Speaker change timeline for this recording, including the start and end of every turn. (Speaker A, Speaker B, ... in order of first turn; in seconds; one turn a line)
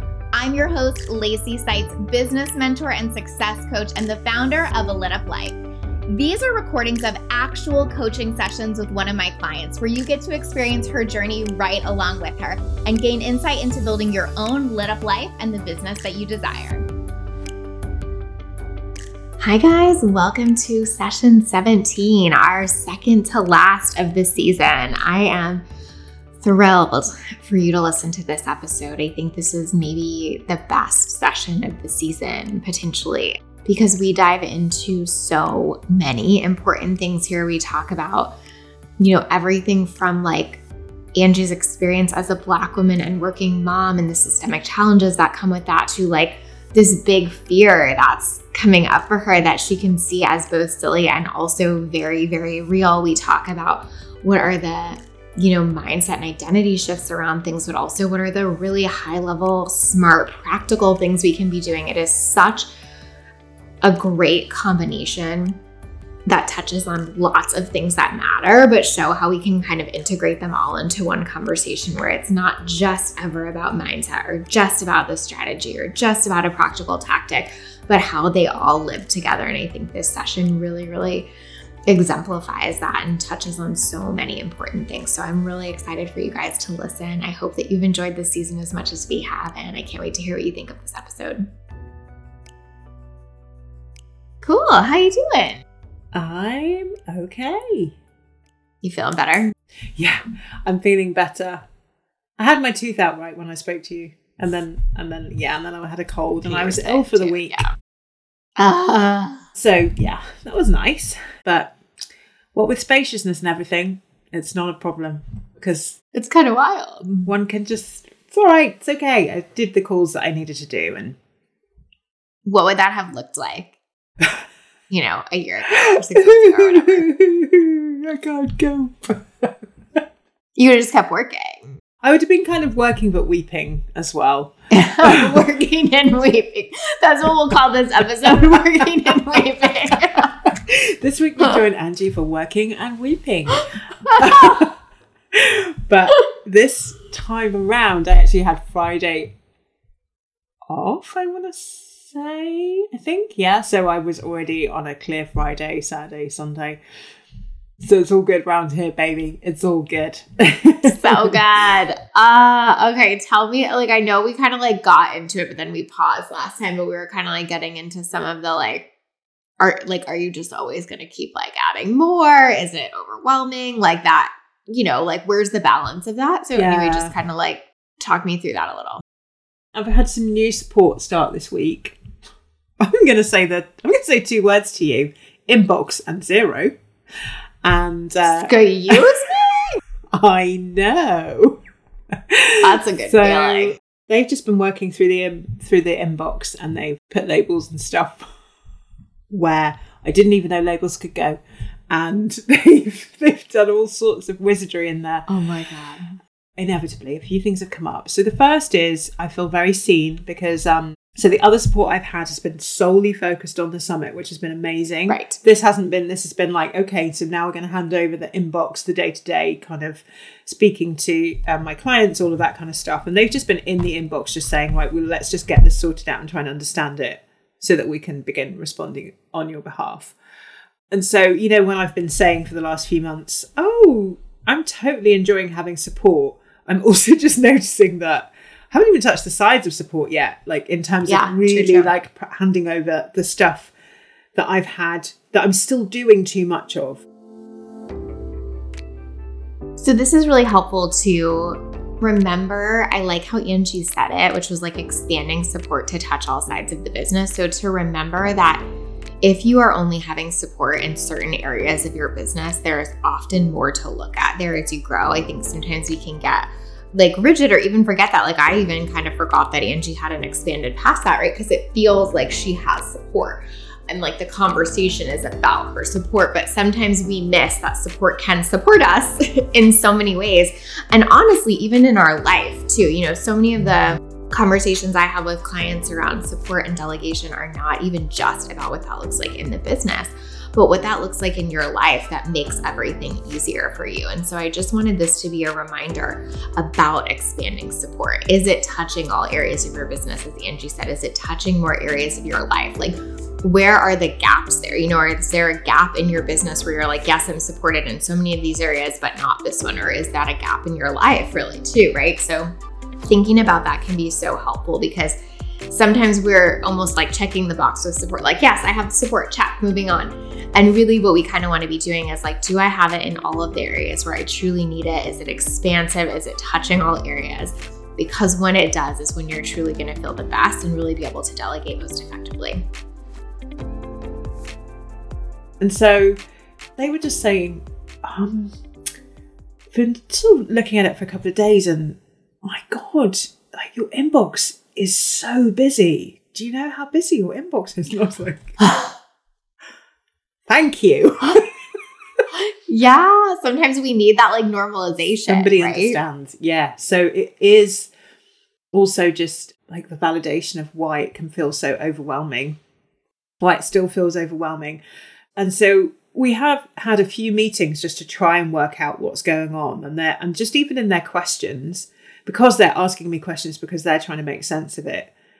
Speaker A: 0.3-5.5
Speaker A: 6.1-16.8
Speaker A: 19.4-25.6
Speaker A: 26.4-38.3
Speaker A: 39.0-40.6
Speaker A: 41.2-62.7
Speaker A: 63.8-65.6
Speaker A: 66.3-81.3
Speaker A: 81.9-91.5
Speaker A: 94.4-95.6
Speaker B: 96.1-98.0
Speaker A: 98.8-99.5
Speaker B: 99.9-101.7
Speaker B: 102.4-107.7
Speaker A: 106.4-107.7
Speaker A: 108.6-109.5
Speaker B: 109.5-111.7
Speaker B: 112.5-116.0
Speaker A: 116.1-117.3
Speaker B: 117.2-121.2
Speaker A: 122.5-123.7
Speaker A: 124.9-127.0
Speaker B: 125.9-129.5
Speaker A: 130.6-131.7
Speaker B: 132.0-135.5
Speaker A: 134.7-140.4
Speaker B: 138.3-139.4
Speaker B: 140.0-144.8
Speaker A: 144.1-144.6
Speaker B: 145.3-149.3
Speaker B: 150.7-156.8
Speaker B: 157.8-161.4
Speaker A: 160.8-168.9
Speaker A: 169.6-179.0
Speaker B: 176.5-177.1
Speaker B: 179.7-182.0
Speaker B: 182.8-186.7
Speaker B: 187.6-191.6
Speaker A: 188.2-189.4
Speaker B: 192.1-198.3
Speaker A: 192.6-193.8
Speaker B: 199.3-205.3
Speaker A: 205.3-206.2
Speaker B: 206.6-230.2
Speaker A: 215.1-215.4
Speaker B: 230.9-243.7
Speaker A: 241.1-241.9
Speaker B: 244.3-247.0
Speaker A: 249.8-258.6
Speaker A: 259.2-312.5
Speaker A: 313.1-315.2
Speaker A: 315.7-332.6
Speaker B: 335.6-336.2
Speaker B: 336.8-338.5
Speaker B: 339.7-348.6
Speaker A: 348.6-348.9
Speaker B: 350.5-352.2
Speaker A: 352.3-356.0
Speaker B: 355.3-357.9
Speaker B: 358.7-362.6
Speaker B: 363.4-364.8
Speaker B: 365.4-375.1